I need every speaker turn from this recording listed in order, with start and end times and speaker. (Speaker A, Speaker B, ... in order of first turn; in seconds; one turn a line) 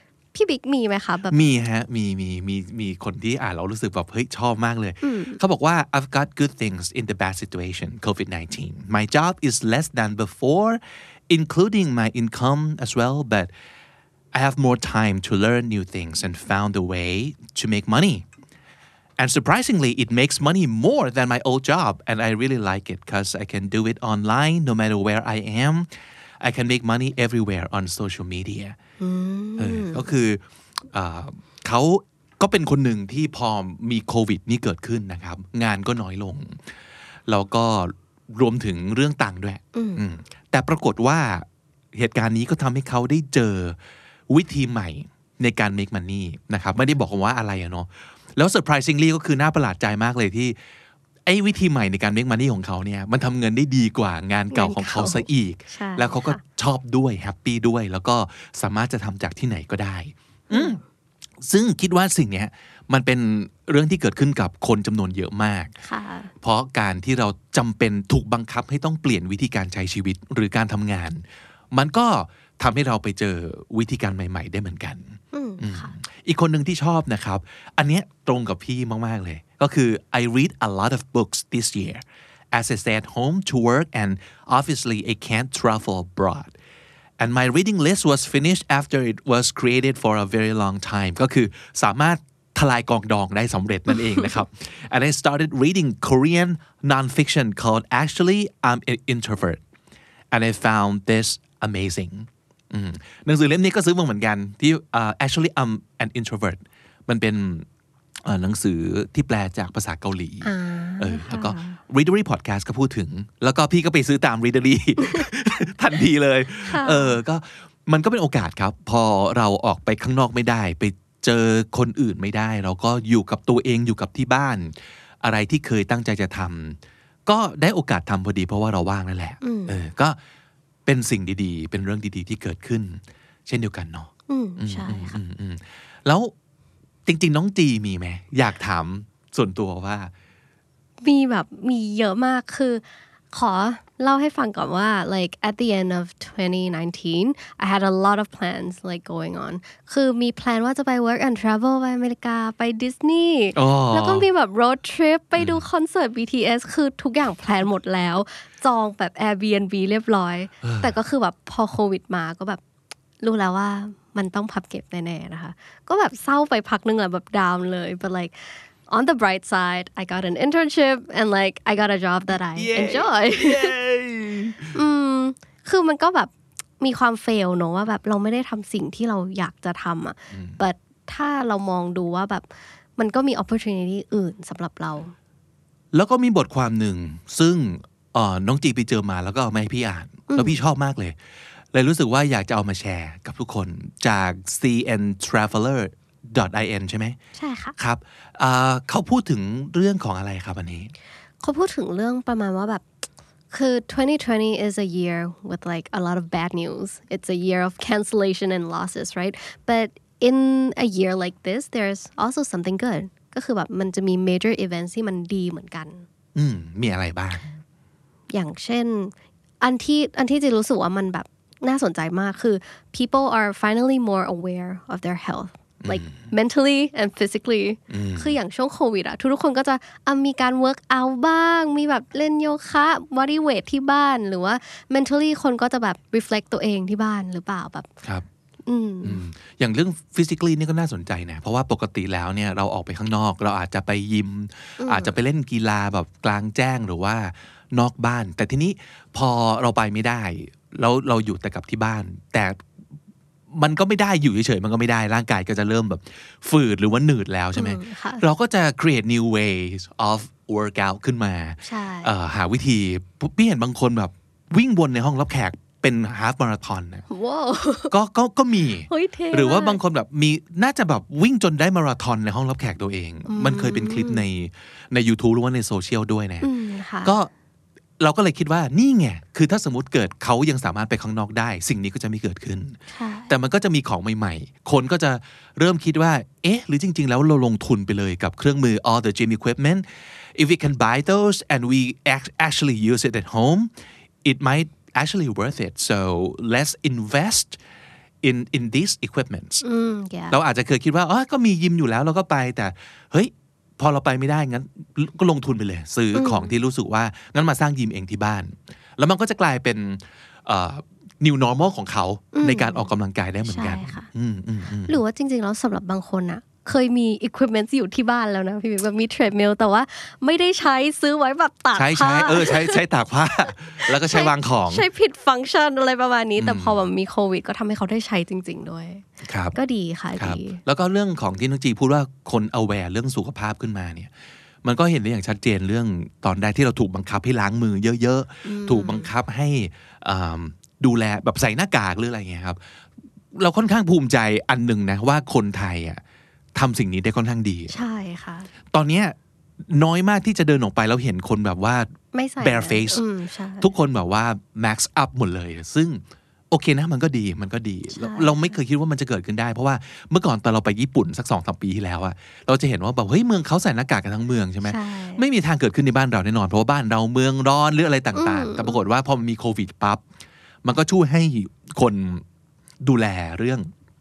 Speaker A: 0.3-1.5
Speaker B: 1.3-13.5
Speaker A: 5.0-5.4
Speaker B: 14.3-18.2
Speaker B: 19.2-25.9
Speaker B: 26.4-28.8
Speaker A: 29.0-30.1
Speaker B: 29.6-36.6
Speaker B: 37.3-43.8
Speaker A: 39.7-40.0
Speaker B: 44.3-50.5
Speaker B: 51.2-60.8
Speaker A: 54.5-56.4
Speaker A: 60.5-60.8
Speaker B: 61.4-65.7
Speaker A: 65.8-66.3
Speaker B: 66.4-86.5
Speaker A: 75.3-75.9
Speaker B: 87.2-99.6
Speaker B: 100.3-107.7
Speaker B: 108.2-130.2
Speaker A: 110.4-111.8
Speaker A: 116.6-117.2
Speaker A: 129.4-129.8
Speaker B: 130.8-136.3
Speaker A: 134.3-135.2
Speaker B: 137.1-140.1
Speaker A: 141.0-162.6
Speaker B: 153.5-154.2
Speaker B: 155.4-155.6
Speaker B: 160.6-160.9
Speaker A: 163.2-173.7
Speaker B: 172.5-174.7
Speaker A: 174.7-185.1
Speaker B: 180.3-180.6
Speaker B: 185.9-191.2
Speaker A: 190.3-190.6
Speaker B: 191.7-197.2
Speaker A: 197.3-197.8
Speaker B: 197.8-200.9
Speaker A: 201.4-202.8
Speaker A: 203.5-216.1
Speaker B: 216.3-217.6
Speaker A: 218.3-237.9
Speaker B: 225.8-226.2
Speaker B: 227.9-228.3
Speaker A: 238.7-239.2
Speaker B: 239.0-252.6
Speaker A: 244.8-245.1
Speaker B: 253.5-267.1
Speaker A: 257.5-258.2
Speaker A: 261.6-262.1
Speaker A: 267.1-267.9
Speaker B: 267.9-276.5
Speaker A: 268.9-269.8
Speaker A: 273.3-274.2
Speaker A: 276.4-277.1
Speaker B: 277.0-277.3
Speaker B: 278.0-293.7
Speaker A: 282.9-283.3
Speaker B: 294.2-297.6
Speaker B: 298.2-299.6
Speaker A: 299.6-300.4
Speaker B: 300.3-315.0
Speaker A: 306.1-306.5
Speaker A: 312.3-312.9
Speaker A: 313.4-314.1
Speaker A: 314.9-322.8
Speaker B: 321.7-324.9
Speaker A: 323.8-329.0
Speaker B: 326.4-326.8
Speaker B: 329.2-329.5
Speaker A: 329.5-330.6
Speaker B: 330.2-334.1
Speaker B: 334.6-342.6
Speaker A: 338.4-339.1
Speaker B: 343.3-346.0
Speaker B: 346.5-347.7
Speaker A: 347.7-348.5
Speaker B: 348.7-353.0
Speaker A: 352.1-353.7
Speaker B: 353.6-370.0
Speaker A: 357.9-358.6
Speaker A: 364.6-365.2
Speaker A: 368.1-368.8
Speaker B: 370.6-372.2
Speaker B: 372.8-373.7